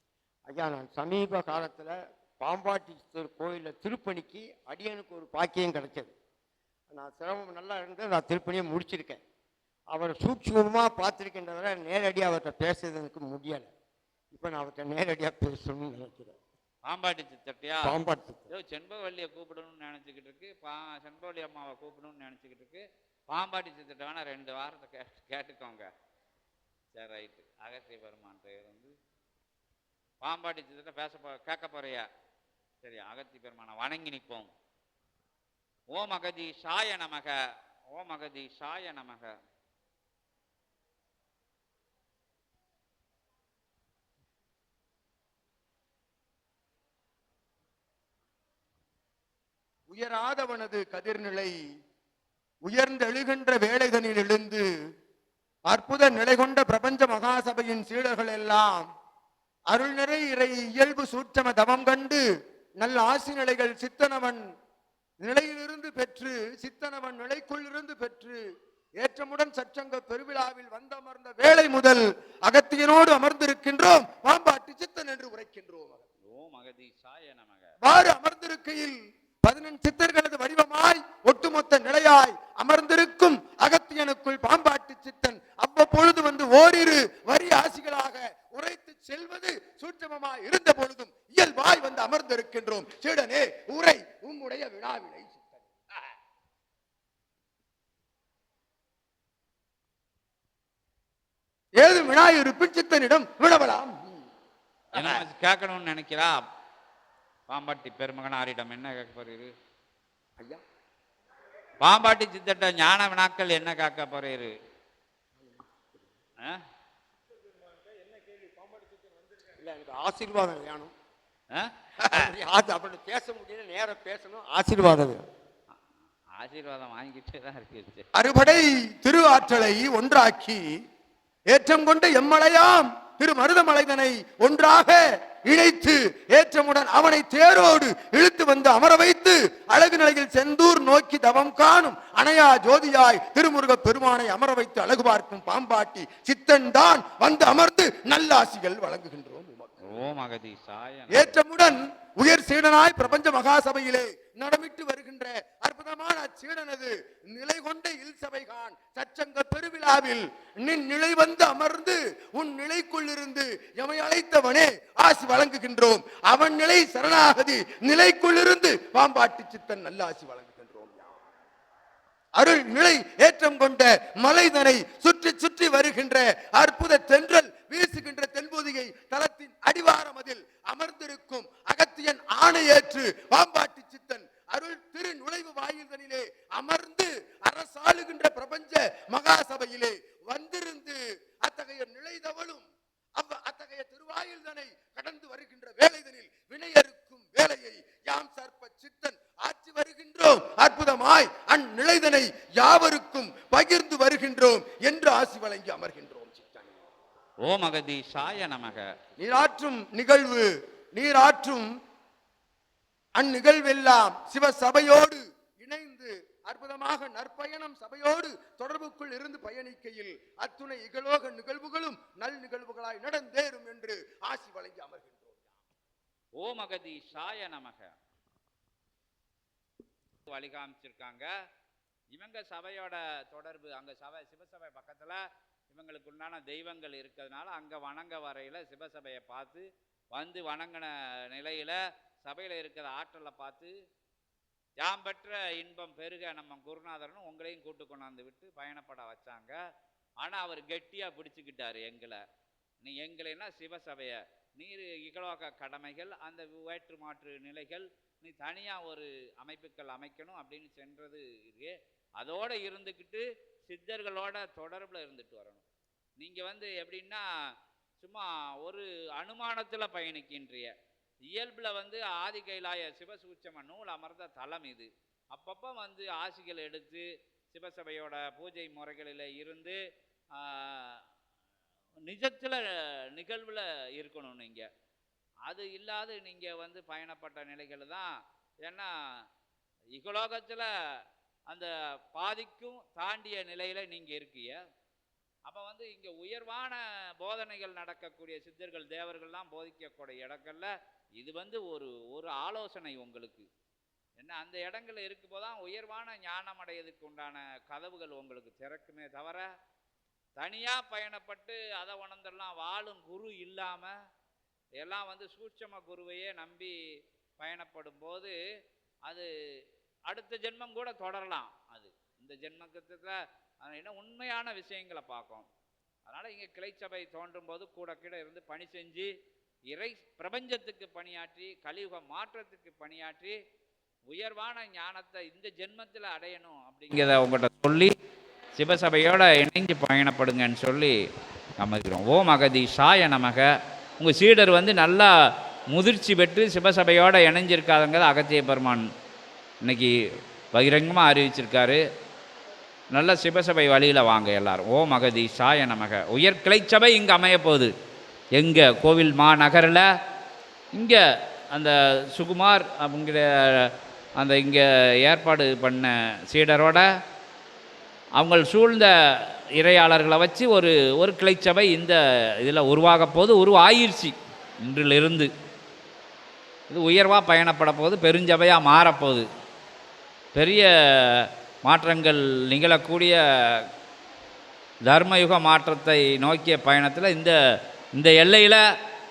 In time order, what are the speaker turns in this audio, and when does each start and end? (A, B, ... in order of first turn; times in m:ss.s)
0:00.5-0:06.1 A
0:06.9-0:09.2 A
0:09.9-0:13.7 A
0:14.3-0:16.4 A
0:16.9-0:17.9 B
0:17.8-0:18.5 A
0:18.5-0:25.9 B
0:26.9-0:28.9 B
0:30.2-0:32.0 B
0:32.8-0:34.5 B
0:35.9-0:37.3 B
0:37.9-0:39.3 B
0:49.9-0:51.5 C
0:52.6-0:54.6 C
0:55.7-0:58.9 C
0:59.7-1:02.2 C
1:02.8-1:04.4 C
1:05.2-1:08.4 C
1:09.0-1:16.0 C
1:16.2-1:17.7 B
1:17.8-1:35.7 C
1:41.8-1:44.2 C
1:44.9-1:46.4 B
1:44.9-1:45.2 C
1:47.5-1:49.5 B
1:51.8-1:54.5 B
1:59.6-2:00.9 A
2:01.5-2:02.2 B
2:02.0-2:05.2 A
2:06.3-2:08.0 B
2:08.1-2:10.6 C
2:11.5-2:29.8 C
2:29.8-2:31.4 B
2:31.1-2:51.1 C
2:52.4-3:12.6 C
3:13.2-3:26.7 C
3:27.4-3:28.8 B
3:29.2-3:31.7 C
3:33.2-3:45.4 C
3:46.4-3:47.9 B
3:50.3-3:51.3 B
3:52.1-4:03.7 B
4:04.8-4:09.5 B
4:10.2-4:12.2 B
4:12.8-4:25.6 B
4:26.2-4:27.2 B
4:28.0-4:30.7 B
4:31.3-4:39.8 B
4:40.3-4:41.0 B
4:42.0-4:44.7 B
4:45.4-4:48.1 B
4:48.6-4:49.2 B
4:49.9-4:50.7 B
4:51.5-4:54.6 B
4:55.4-5:03.4 B
5:04.2-5:09.4 B
5:10.4-5:13.9 B
5:14.8-5:16.7 B
5:17.4-5:18.3 B
5:19.1-5:25.5 B
5:26.1-5:29.1 B
5:29.7-5:33.4 B
5:34.1-5:37.9 B
5:38.6-5:40.9 B
5:41.6-5:43.5 B
5:44.0-5:48.9 B
5:49.6-5:49.9 B
5:50.5-5:51.8 B
5:52.9-5:57.7 B
5:58.4-5:59.9 B
6:00.7-6:06.9 B
6:08.2-6:15.3 B
6:16.7-6:19.3 B
6:20.3-6:23.7 B
6:24.8-6:27.4 B
6:27.9-6:28.6 B